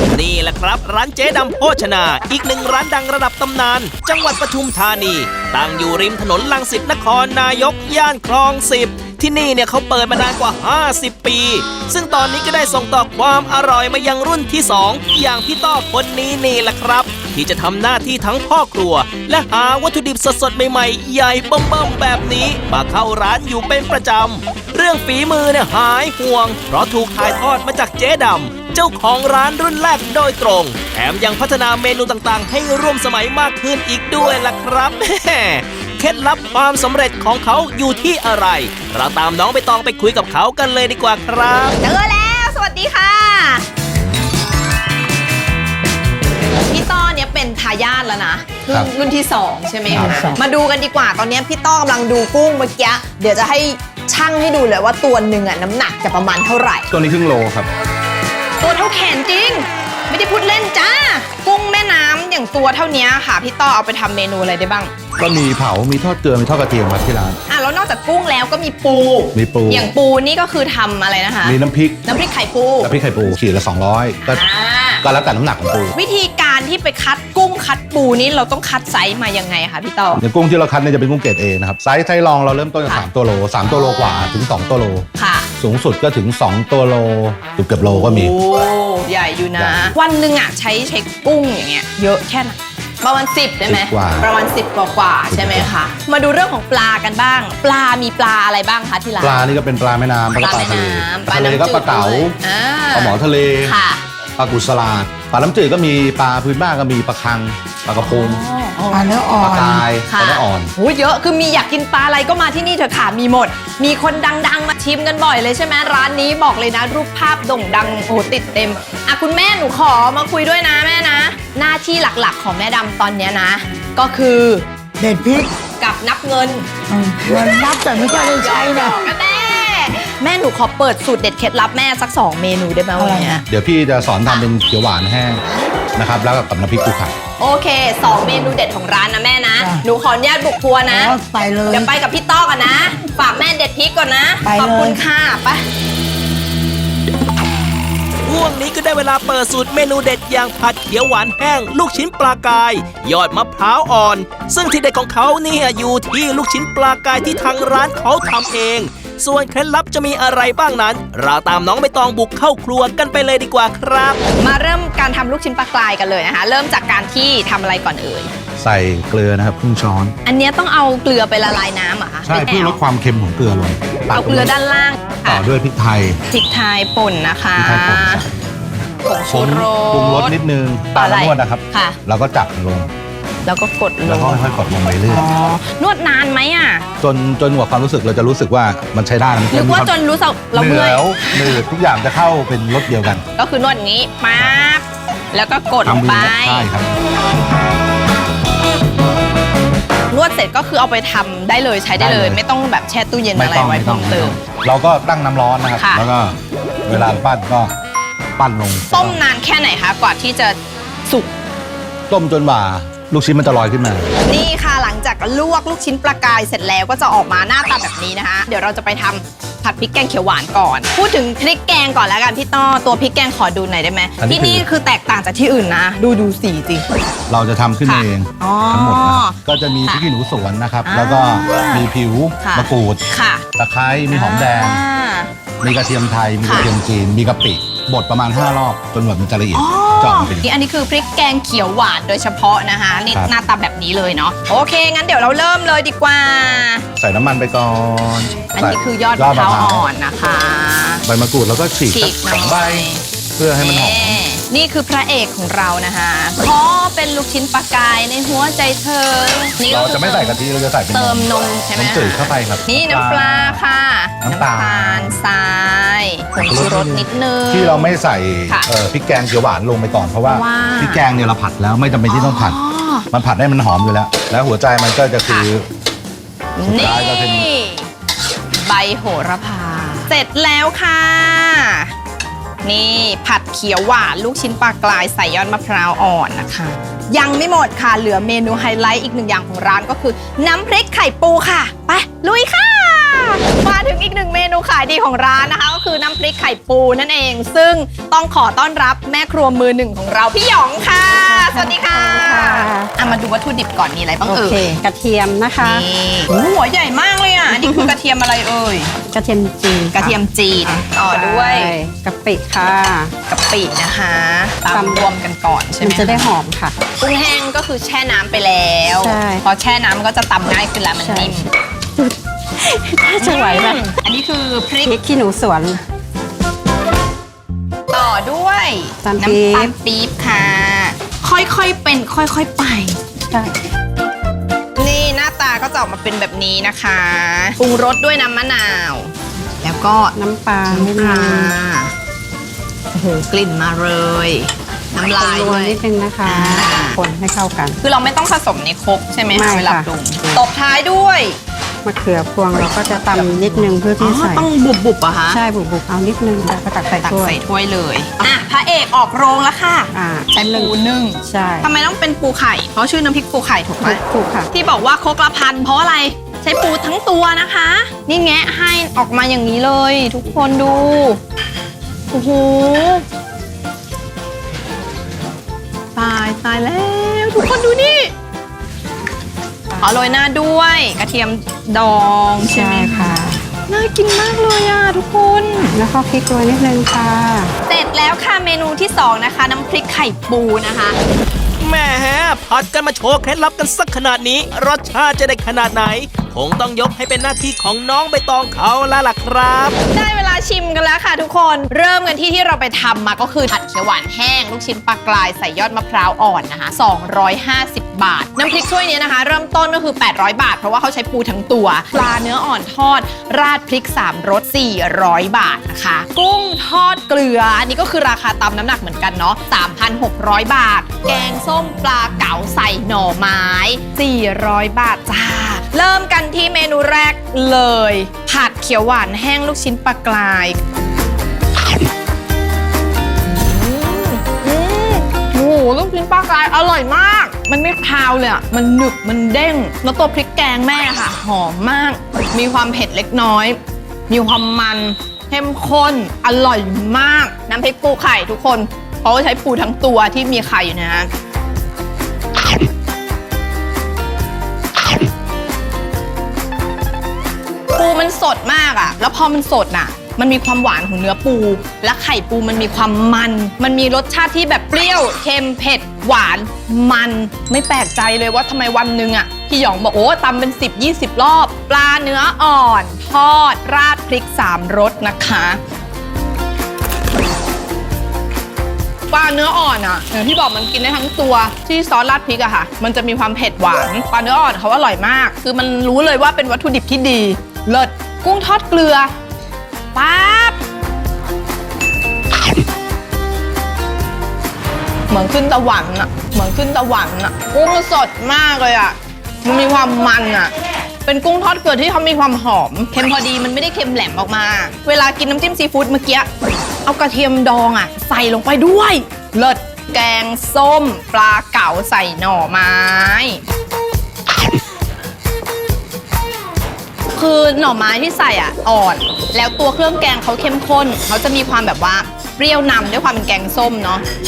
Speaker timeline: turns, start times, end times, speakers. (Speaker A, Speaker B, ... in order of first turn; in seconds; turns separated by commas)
Speaker A: 0.1-41.8, Speaker B: 41.8-43.6, Speaker B: 46.7-56.9, Speaker C: 49.9-50.3, Speaker C: 56.9-57.7, Speaker B: 58.6-64.9, Speaker C: 65.2-67.4, Speaker B: 67.5-73.0, Speaker C: 69.3-69.9, Speaker C: 71.4-72.2, Speaker C: 72.8-74.4, Speaker B: 74.2-75.0, Speaker C: 75.0-76.0, Speaker B: 75.9-80.2, Speaker C: 80.2-85.1, Speaker B: 83.7-84.5, Speaker B: 85.2-85.5, Speaker C: 85.6-88.3, Speaker B: 87.8-99.5, Speaker C: 89.5-90.0, Speaker C: 93.7-94.3, Speaker C: 95.3-95.7, Speaker C: 99.2-102.4, Speaker B: 100.4-104.0, Speaker C: 102.9-103.8, Speaker C: 104.4-108.5, Speaker B: 108.0-109.3, Speaker D: 108.9-109.9, Speaker C: 109.4-110.7, Speaker B: 110.1-124.7, Speaker D: 125.0-125.5, Speaker B: 125.8-126.7, Speaker D: 126.9-129.0, Speaker B: 128.0-133.4, Speaker D: 133.0-133.4, Speaker C: 133.4-135.4, Speaker C: 135.9-137.2, Speaker B: 137.4-145.6, Speaker D: 139.6-139.8, Speaker D: 140.9-141.9, Speaker D: 144.4-145.0, Speaker A: 148.3-164.2, Speaker B: 164.4-168.3, Speaker C: 168.6-170.2, Speaker B: 170.2-172.8, Speaker C: 172.2-174.5, Speaker B: 174.1-175.4, Speaker C: 175.2-176.2, Speaker B: 176.3-178.2, Speaker C: 177.6-178.3, Speaker B: 178.9-180.4, Speaker C: 179.3-182.9, Speaker B: 181.0-182.0, Speaker B: 183.4-186.8, Speaker C: 184.1-185.3, Speaker C: 187.0-189.9, Speaker B: 189.5-191.6, Speaker C: 190.5-193.2, Speaker B: 193.4-196.7, Speaker C: 195.8-196.9, Speaker B: 200.1-204.4, Speaker C: 201.9-202.4, Speaker C: 203.3-207.8, Speaker B: 205.8-206.1, Speaker C: 208.4-209.2, Speaker B: 208.9-211.3, Speaker C: 212.1-214.1, Speaker B: 214.3-226.9, Speaker C: 224.2-224.7, Speaker C: 227.3-233.0, Speaker B: 227.8-230.1, Speaker B: 230.8-231.9, Speaker B: 232.4-233.4, Speaker C: 233.6-234.8, Speaker B: 234.1-235.3, Speaker C: 235.6-240.5, Speaker B: 236.4-236.7, Speaker B: 239.5-246.9, Speaker C: 247.0-249.9, Speaker B: 248.6-251.0, Speaker C: 251.1-254.2, Speaker B: 251.9-253.1, Speaker B: 253.6-260.4, Speaker C: 259.7-263.6, Speaker B: 260.9-268.7, Speaker C: 264.2-265.2, Speaker C: 266.4-272.6, Speaker B: 270.3-271.0, Speaker B: 272.1-273.1, Speaker C: 273.1-275.7, Speaker B: 275.2-275.5, Speaker B: 276.6-277.9, Speaker C: 276.6-277.5, Speaker B: 278.6-281.9, Speaker B: 282.6-304.7, Speaker E: 301.1-303.1, Speaker E: 304.2-305.9, Speaker B: 305.6-308.9, Speaker E: 307.6-307.9, Speaker E: 309.1-310.2, Speaker B: 309.9-311.8, Speaker E: 310.8-313.1, Speaker B: 313.3-316.4, Speaker E: 314.7-315.1, Speaker E: 315.8-316.8, Speaker B: 317.0-321.5, Speaker E: 318.9-319.4, Speaker E: 321.0-321.5, Speaker E: 322.0-323.9, Speaker B: 323.2-325.0, Speaker E: 324.8-325.8, Speaker B: 327.9-333.0, Speaker E: 329.0-329.7, Speaker E: 333.3-333.6, Speaker B: 334.8-340.2, Speaker E: 340.1-341.6, Speaker B: 340.7-341.9, Speaker B: 342.9-347.0, Speaker E: 345.1-347.8, Speaker B: 347.8-351.4, Speaker E: 349.3-350.4, Speaker E: 351.8-354.5, Speaker B: 352.9-355.4, Speaker E: 355.3-357.4, Speaker B: 356.9-371.2, Speaker E: 359.9-361.7, Speaker E: 363.8-364.5, Speaker B: 372.1-373.1, Speaker B: 375.9-378.1, Speaker B: 379.8-385.8, Speaker E: 382.4-383.4, Speaker E: 385.7-387.5, Speaker B: 387.7-391.0, Speaker A: 391.6-399.8, Speaker B: 399.9-430.6, Speaker B: 433.3-443.6, Speaker B: 444.1-451.1, Speaker B: 457.7-475.6, Speaker B: 479.1-489.1, Speaker B: 489.9-490.6, Speaker B: 495.1-500.5, Speaker B: 501.1-506.3, Speaker B: 506.9-513.4, Speaker B: 517.1-524.0